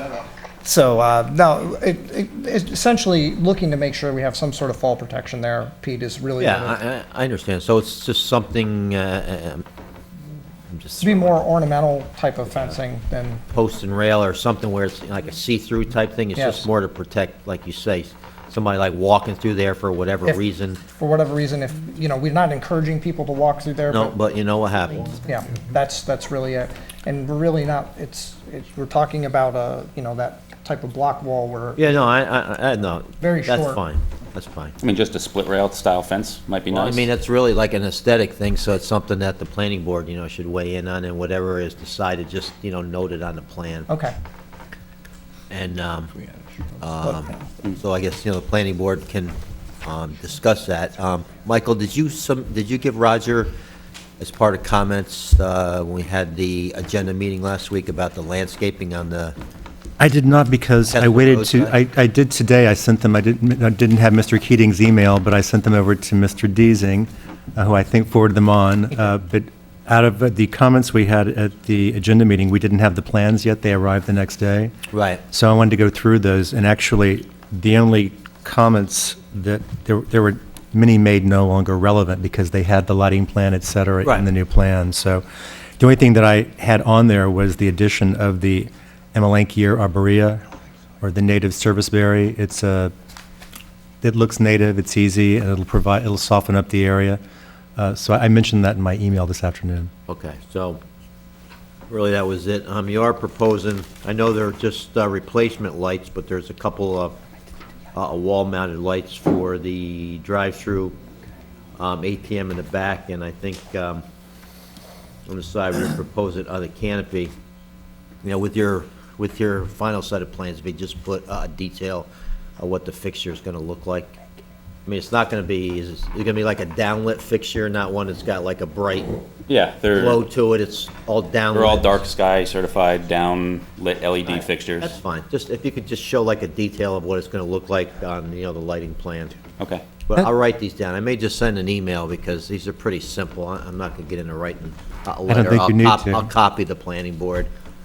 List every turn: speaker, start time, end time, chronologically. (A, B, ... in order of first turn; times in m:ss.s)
0:00.6-0:06.8 A
0:06.4-0:09.6 B
0:10.7-0:11.5 B
0:11.0-0:13.4 A
0:13.5-0:20.8 B
0:16.4-0:16.6 A
0:21.0-0:24.1 A
0:23.9-0:25.2 B
0:25.2-0:31.8 A
0:31.8-0:34.8 B
0:33.2-0:33.8 A
0:34.8-0:37.1 C
0:36.7-0:43.9 B
0:45.5-0:46.1 B
0:46.8-0:53.5 B
0:54.2-0:59.4 B
1:00.0-1:14.7 D
1:00.9-1:01.8 B
1:14.9-1:15.2 B
1:15.3-1:25.2 D
1:25.8-1:30.4 D
1:31.0-1:32.9 D
1:34.0-1:37.2 D
1:37.8-1:39.9 D
1:40.1-1:40.8 B
1:41.9-1:47.2 B
1:47.9-1:51.0 B
1:51.8-1:54.0 B
1:55.3-1:57.3 B
1:58.2-2:02.1 B
2:02.6-2:04.2 B
2:04.8-2:09.2 B
2:09.5-2:10.2 C
2:09.9-2:12.0 B
2:11.5-2:14.9 C
2:14.2-2:19.4 B
2:19.6-2:19.8 C
2:20.1-2:27.5 B
2:25.3-2:26.3 D